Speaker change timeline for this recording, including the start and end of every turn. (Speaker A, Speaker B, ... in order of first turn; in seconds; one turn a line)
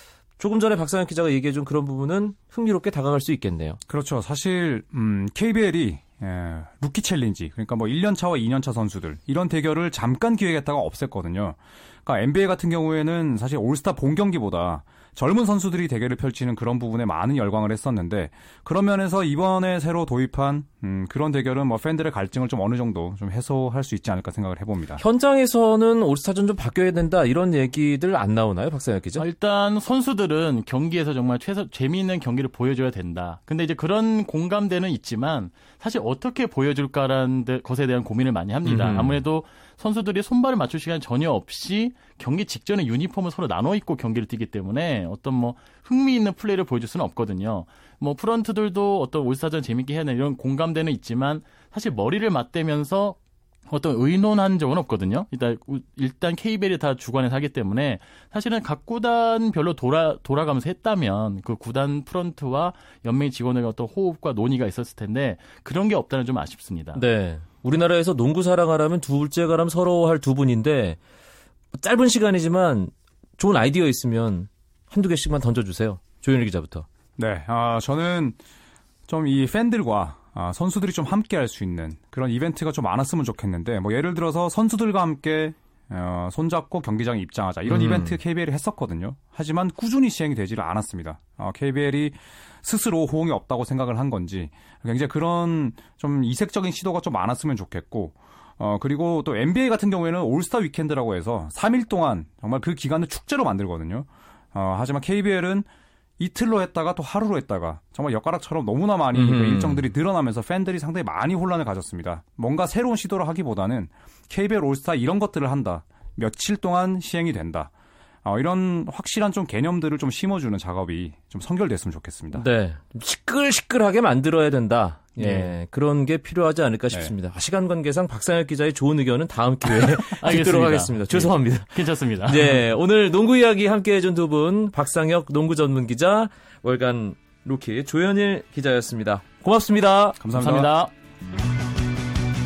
Speaker A: 0.4-3.8
Speaker B: 3.9-25.0
Speaker A: 25.0-29.2
Speaker C: 29.2-53.2
Speaker A: 38.6-39.2
Speaker C: 53.7-67.0
Speaker A: 66.9-71.0
Speaker A: 71.7-76.9
Speaker B: 77.2-78.4
Speaker B: 79.1-105.7
Speaker A: 87.7-88.2
Speaker B: 106.2-117.7
Speaker A: 109.1-109.8
Speaker B: 118.2-122.5
Speaker A: 122.3-140.2
Speaker C: 125.2-125.5
Speaker C: 130.1-132.6
Speaker B: 140.2-140.7
Speaker C: 140.3-140.9